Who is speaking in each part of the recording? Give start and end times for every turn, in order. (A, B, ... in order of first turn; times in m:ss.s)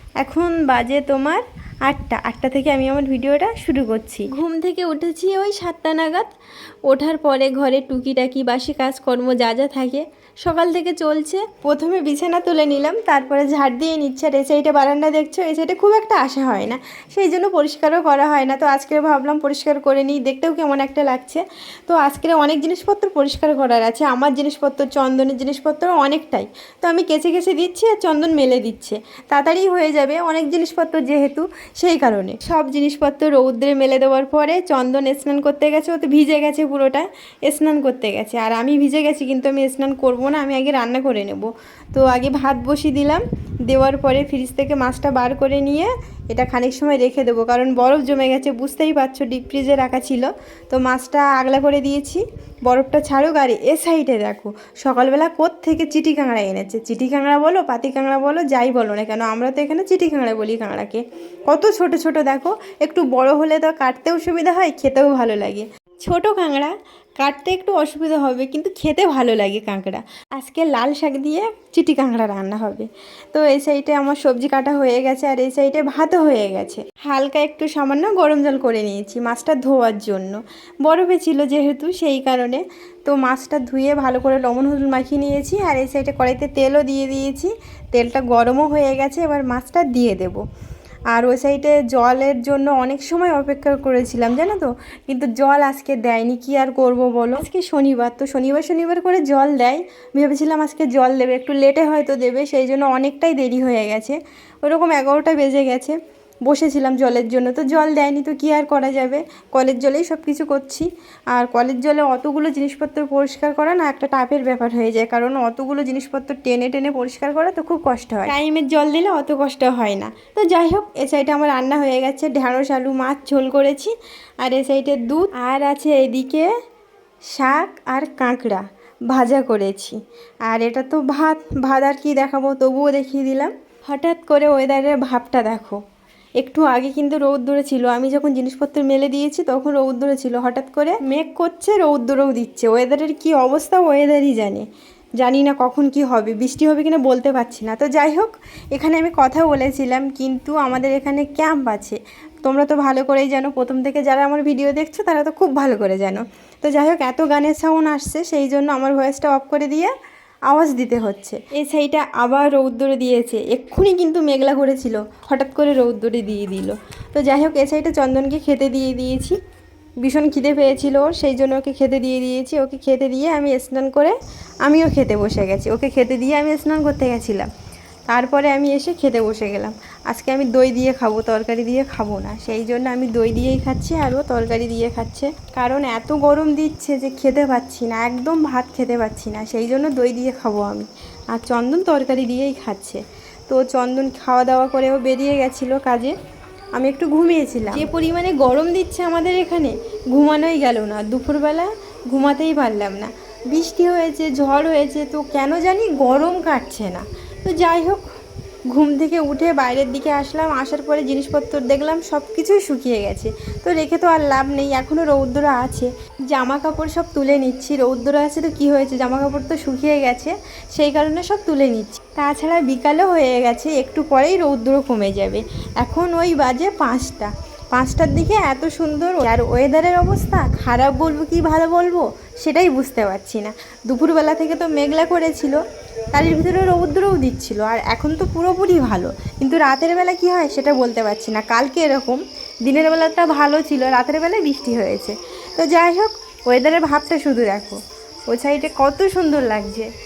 0:00.2-0:06.3 A
0:06.8-1:30.4 A
1:31.1-2:06.5 A
2:07.3-2:15.8 A
2:16.4-2:24.6 A
2:25.2-2:39.9 A
2:40.5-2:49.4 A
2:50.0-2:57.5 A
2:58.1-3:16.1 A
3:16.8-3:28.0 A
3:28.7-3:55.6 A
3:56.1-4:09.9 A